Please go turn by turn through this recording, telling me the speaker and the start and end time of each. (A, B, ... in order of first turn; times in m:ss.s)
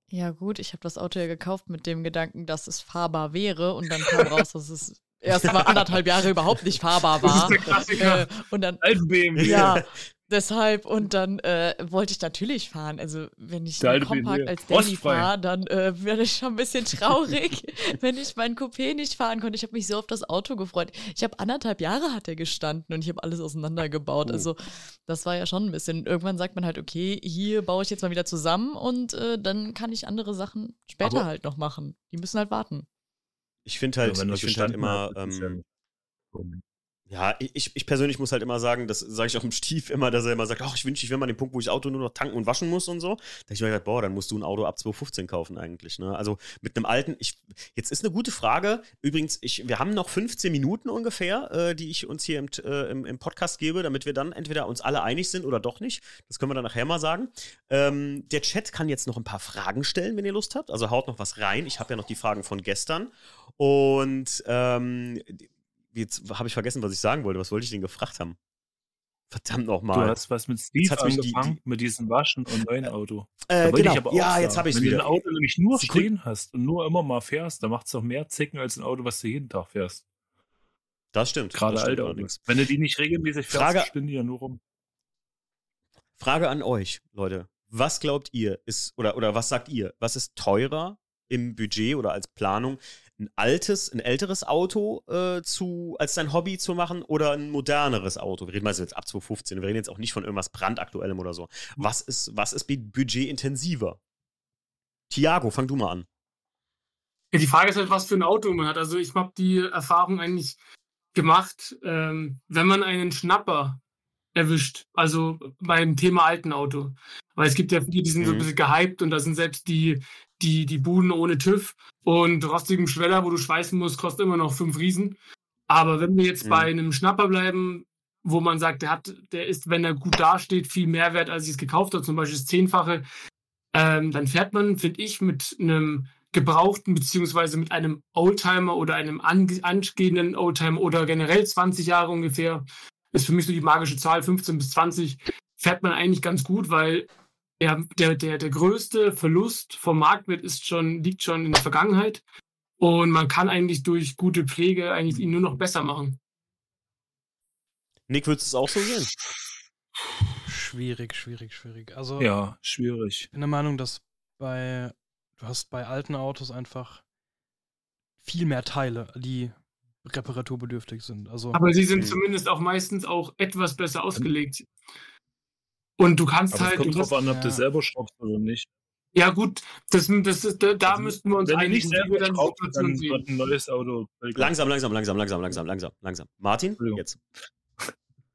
0:00.1-0:08.8 A
0:07.2-0:08.3 B
0:07.2-0:07.6 C
0:08.8-0:09.8 C
0:09.4-0:09.8 D
0:09.4-0:32.9 A
0:13.8-0:15.3 C
0:33.6-0:35.6 D
0:34.0-0:35.6 C
0:36.3-0:36.6 C
0:37.1-1:08.4 D
1:09.3-1:10.2 D
1:09.9-1:20.0 C
1:10.8-1:11.6 D
1:13.5-1:15.1 D
1:15.7-1:16.1 D
1:21.1-1:22.4 D
1:21.5-1:24.6 C
1:23.5-1:23.9 D
1:26.2-1:44.0 D
1:45.1-1:46.0 D
1:47.3-1:50.6 B
1:51.1-1:53.8 B
1:54.3-2:13.0 B
1:58.2-1:58.5 D
2:06.4-2:06.7 D
2:13.7-2:32.2 B
2:32.8-2:36.2 B
2:38.1-2:39.1 D
2:40.5-2:42.3 E
2:42.2-2:43.3 C
2:43.3-2:47.0 E
2:48.2-2:51.6 E
2:51.5-2:54.7 B
2:56.0-2:57.1 B
2:56.5-2:58.7 C
2:57.2-2:57.6 E
2:59.1-3:03.2 B
3:00.9-3:04.5 C
3:04.3-3:07.2 D
3:06.8-3:07.0 C